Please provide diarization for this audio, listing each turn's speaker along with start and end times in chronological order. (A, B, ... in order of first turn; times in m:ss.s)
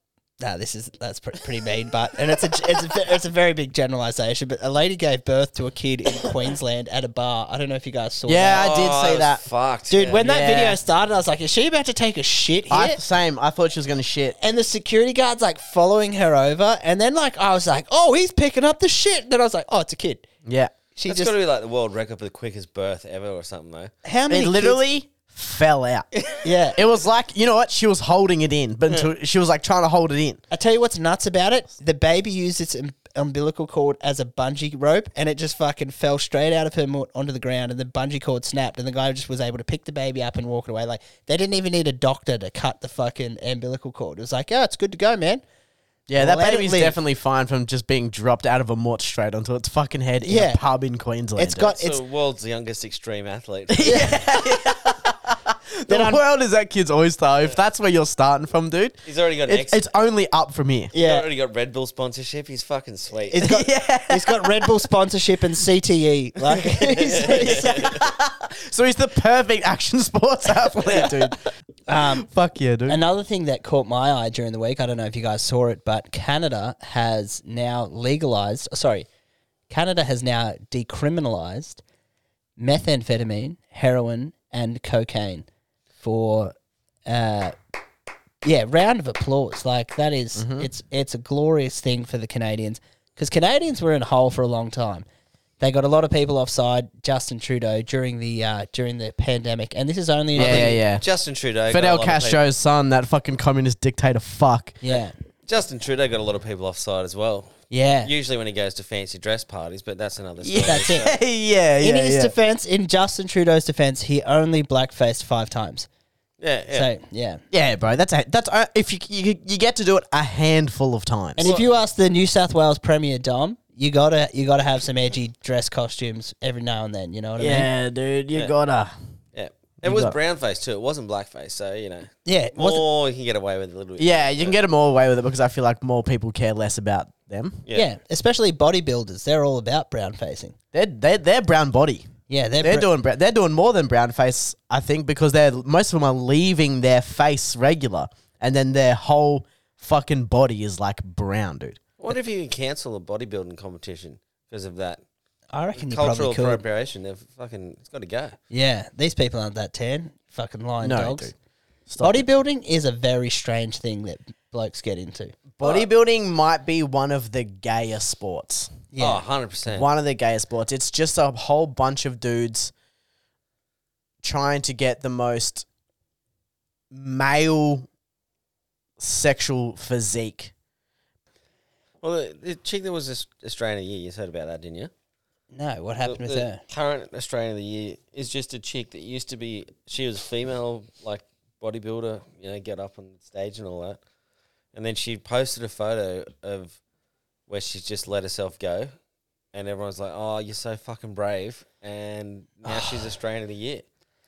0:00.4-0:08.7 A
0:08.2-0:09.4 B
0:08.5-0:10.2 C
0:09.9-0:13.0 A
0:10.2-0:10.8 B
0:12.7-0:14.3 B
0:14.4-0:20.2 A
0:20.4-0:20.7 B
0:21.0-0:21.3 A
0:21.0-0:23.9 C
0:24.0-0:24.8 A
0:24.3-0:26.1 B
0:26.4-0:26.8 A
0:26.7-0:30.4 B
0:30.5-0:45.4 A
0:46.1-0:51.7 B
0:46.2-0:47.0 A
0:50.2-0:50.6 A
0:51.4-0:52.0 A
0:51.7-0:54.3 C
0:53.7-1:00.9 B
0:53.8-0:54.2 A
0:55.9-0:56.2 A
0:59.0-0:59.8 C
1:00.9-1:01.2 A
1:01.0-1:03.5 C
1:03.3-1:08.0 A
1:03.4-1:04.8 B
1:06.8-1:08.0 C
1:07.1-1:11.4 B
1:11.9-1:12.3 A
1:12.0-1:13.0 B
1:12.9-1:19.1 A
1:19.7-1:21.8 A
1:22.6-1:25.4 A
1:26.0-1:26.5 A
1:27.0-1:27.6 A
1:28.4-1:35.0 A
1:30.4-1:30.7 B
1:35.6-1:40.8 A
1:40.3-1:41.0 B
1:40.4-1:42.4 C
1:41.7-1:44.8 B
1:44.8-1:45.1 A
1:44.9-1:51.2 C
1:47.7-1:48.1 A
1:50.4-1:52.3 B
1:50.6-1:51.1 A
1:51.8-1:55.9 A
1:56.4-1:56.9 C
1:56.7-1:57.4 A
1:57.5-2:01.4 B
2:01.4-2:07.7 A
2:01.4-2:01.6 C
2:07.4-2:08.9 B
2:09.3-2:14.6 C
2:09.8-2:10.2 B
2:12.2-2:12.8 A
2:14.0-2:17.6 B
2:17.7-2:20.5 A
2:20.7-2:22.1 B
2:22.3-2:22.9 A
2:22.6-2:31.8 B
2:32.0-2:35.0 C
2:35.5-2:36.6 A
2:35.7-2:38.4 C
2:38.5-2:41.3 A
2:40.8-2:41.3 B
2:41.9-2:42.2 B
2:42.0-2:45.4 A
2:45.5-2:48.7 B
2:45.6-2:45.9 C
2:48.9-2:49.2 A
2:49.0-2:49.9 C
2:49.7-2:52.7 B
2:54.2-2:55.6 B
2:56.9-2:57.9 B
2:59.0-3:00.5 B
3:02.0-3:04.9 C
3:05.5-3:06.6 A
3:06.0-3:14.0 C
3:14.7-3:16.8 C
3:17.5-3:18.9 C
3:19.5-3:23.8 C
3:22.6-3:23.1 A